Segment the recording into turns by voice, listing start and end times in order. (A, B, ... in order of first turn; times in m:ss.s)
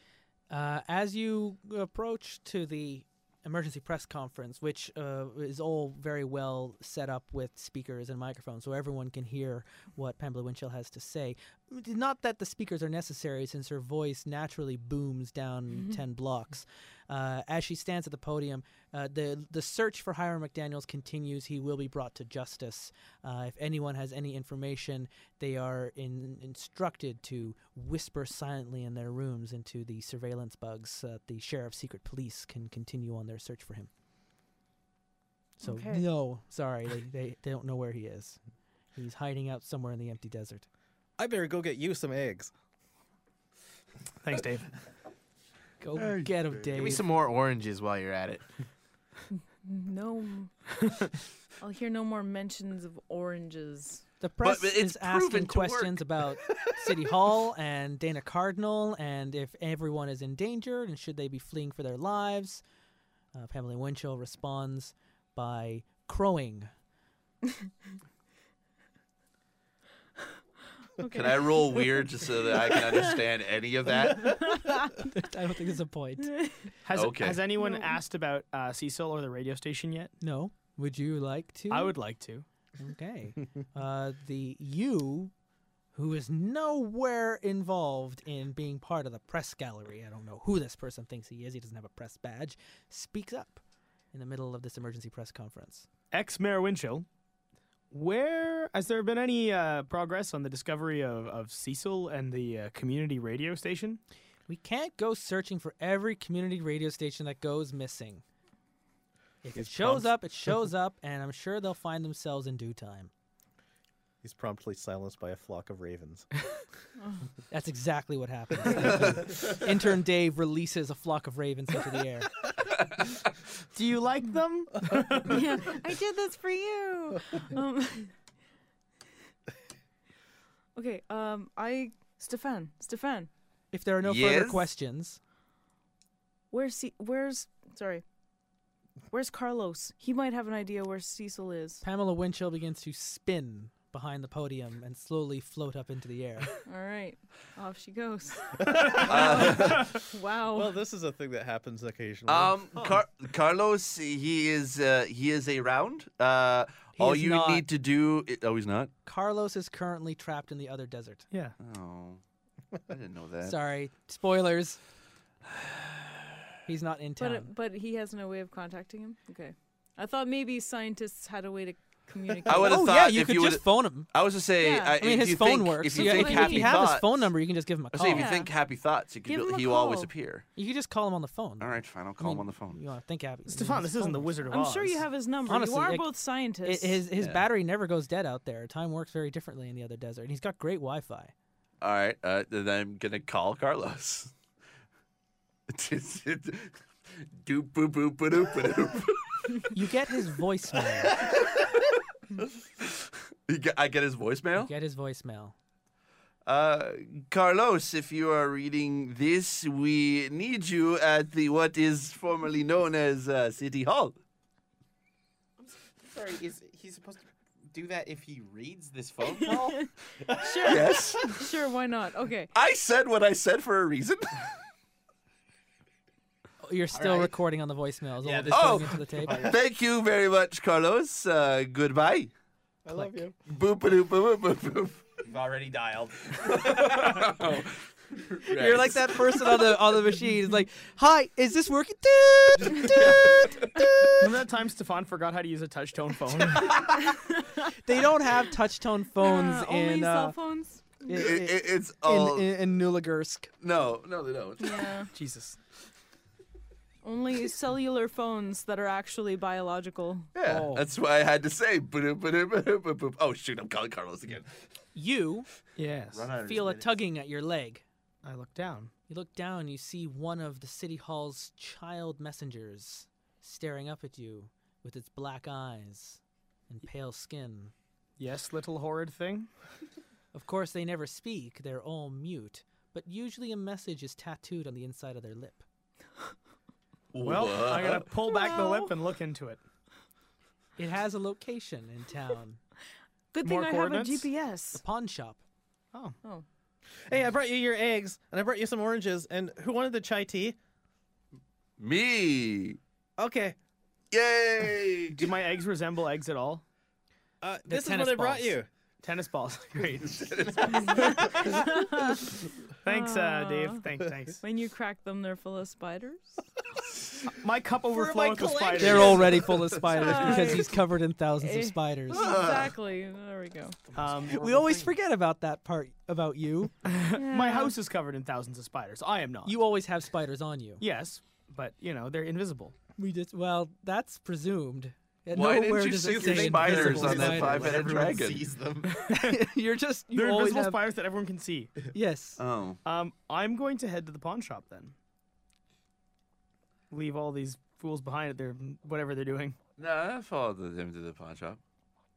0:00.5-0:33.9 A
0:15.7-0:16.0 B
0:35.6-0:36.0 B
0:35.6-0:38.4 A
0:39.0-0:40.7 A
0:41.2-0:42.5 C
0:44.2-0:44.7 D
0:45.8-0:47.0 A
0:46.7-0:48.4 E
0:49.6-0:50.6 B
0:51.6-0:54.0 B
0:54.2-1:02.6 A
0:54.4-0:56.6 F
1:03.3-1:06.7 A
1:11.0-1:13.2 B
1:11.1-1:14.5 F
1:14.0-1:15.0 B
1:15.1-1:16.3 A
1:16.2-1:16.7 B
1:16.8-1:20.1 D
1:16.9-1:17.5 F
1:17.5-1:18.0 B
1:20.2-1:22.0 A
1:21.7-1:22.4 D
1:22.8-1:25.3 A
1:25.9-1:33.6 A
1:34.1-1:35.9 A
1:36.1-1:37.0 D
1:37.9-1:44.0 D
1:44.5-1:48.2 A
1:49.4-1:53.1 A
1:49.6-1:50.1 C
1:54.2-1:56.3 C
1:57.0-1:57.3 B
1:57.5-2:02.3 A
2:03.7-2:05.4 D
2:05.2-2:08.1 B
2:10.8-2:13.3 B
2:13.7-2:15.2 A
2:14.0-2:14.7 F
2:16.5-2:18.0 B
2:19.1-2:21.8 B
2:21.8-2:26.5 A
2:26.6-2:30.8 B
2:28.8-2:29.5 C
2:29.0-2:29.9 F
2:30.5-2:33.0 C
2:32.3-2:38.9 F
2:37.0-2:37.6 A
2:39.0-2:41.2 A
2:41.3-2:41.6 D
2:41.6-2:42.2 F
2:42.9-2:43.6 F
2:43.4-2:44.8 A
2:46.6-2:47.5 A
2:47.2-2:52.8 B
2:52.4-2:57.3 F
2:52.6-2:54.1 A
2:54.6-2:55.0 B
2:55.0-2:58.3 A
2:55.9-2:56.8 B
2:57.9-3:00.4 F
2:58.1-2:58.5 B
2:59.2-3:00.1 B
3:00.6-3:04.4 A
3:01.6-3:02.8 F
3:03.5-3:05.0 D
3:04.5-3:07.0 B
3:05.4-3:06.1 A
3:06.6-3:11.3 A
3:07.2-3:07.4 F
3:11.8-3:14.3 F
3:15.7-3:16.7 F
3:17.4-3:19.7 F
3:19.7-3:21.2 A
3:21.1-3:21.9 F
3:22.8-3:24.7 F
3:24.6-3:25.5 A
3:26.4-3:34.1 F
3:35.6-3:39.8 E
3:39.2-3:42.5 B
3:40.6-3:41.4 F
3:42.5-3:44.4 F
3:46.6-3:49.4 A
3:46.9-3:47.4 E
3:48.2-3:49.6 E
3:48.5-3:52.3 F
3:52.9-3:53.2 E
3:52.9-3:53.3 A
3:53.4-3:55.0 F
3:55.2-3:56.9 E
3:56.4-3:59.6 F
3:58.5-4:04.2 A
4:02.8-4:03.4 E
4:03.0-4:03.5 F
4:04.2-4:06.8 D
4:06.6-4:06.8 F
4:07.0-4:07.7 B
4:07.8-4:10.4 A
4:09.2-4:11.2 B
4:11.0-4:13.5 A
4:11.1-4:12.5 F
4:13.6-4:15.0 F
4:14.6-4:15.1 B
4:15.1-4:15.6 D
4:17.0-4:20.3 B
4:20.3-4:24.5 F
4:20.5-4:20.8 A
4:20.5-4:20.8 D
4:24.9-4:25.5 A
4:25.8-4:26.3 D
4:26.2-4:26.6 E
4:26.2-4:26.8 F
4:26.4-4:27.8 A
4:28.2-4:28.9 D
4:29.1-4:37.7 A
4:38.2-4:39.5 D
4:40.3-4:45.6 A
4:47.1-4:48.1 F
4:47.2-4:49.6 D
4:48.2-4:49.0 B
4:50.8-4:52.6 A
4:53.3-4:54.8 B
4:53.4-4:54.3 D
4:54.7-4:55.4 A
4:57.0-5:00.6 C
5:01.8-5:02.8 F
5:03.2-5:03.6 C
5:04.1-5:05.3 F
5:05.1-5:06.6 D
5:07.4-5:08.7 C
5:07.6-5:08.6 A
5:09.0-5:11.5 D
5:10.2-5:11.0 F
5:10.8-5:12.3 B
5:12.8-5:14.4 D
5:12.8-5:13.8 B
5:14.4-5:16.4 B
5:17.2-5:19.5 D
5:17.9-5:19.7 E
5:18.8-5:22.3 A
5:19.8-5:20.8 B
5:21.3-5:23.8 B
5:22.1-5:22.7 F
5:23.9-5:24.4 D
5:24.3-5:26.7 A
5:24.3-5:24.9 E
5:26.8-5:29.6 D
5:27.2-5:27.8 B
5:29.4-5:30.8 A
5:30.8-5:32.7 D
5:33.0-5:37.9 A
5:35.3-5:38.5 F
5:36.0-5:39.0 E
5:39.1-5:40.8 A
5:39.1-5:39.4 D
5:40.1-5:41.7 D
5:41.9-5:42.4 A
5:42.4-5:42.8 F
5:42.8-5:44.9 D
5:46.9-5:49.6 D
5:49.8-5:51.6 F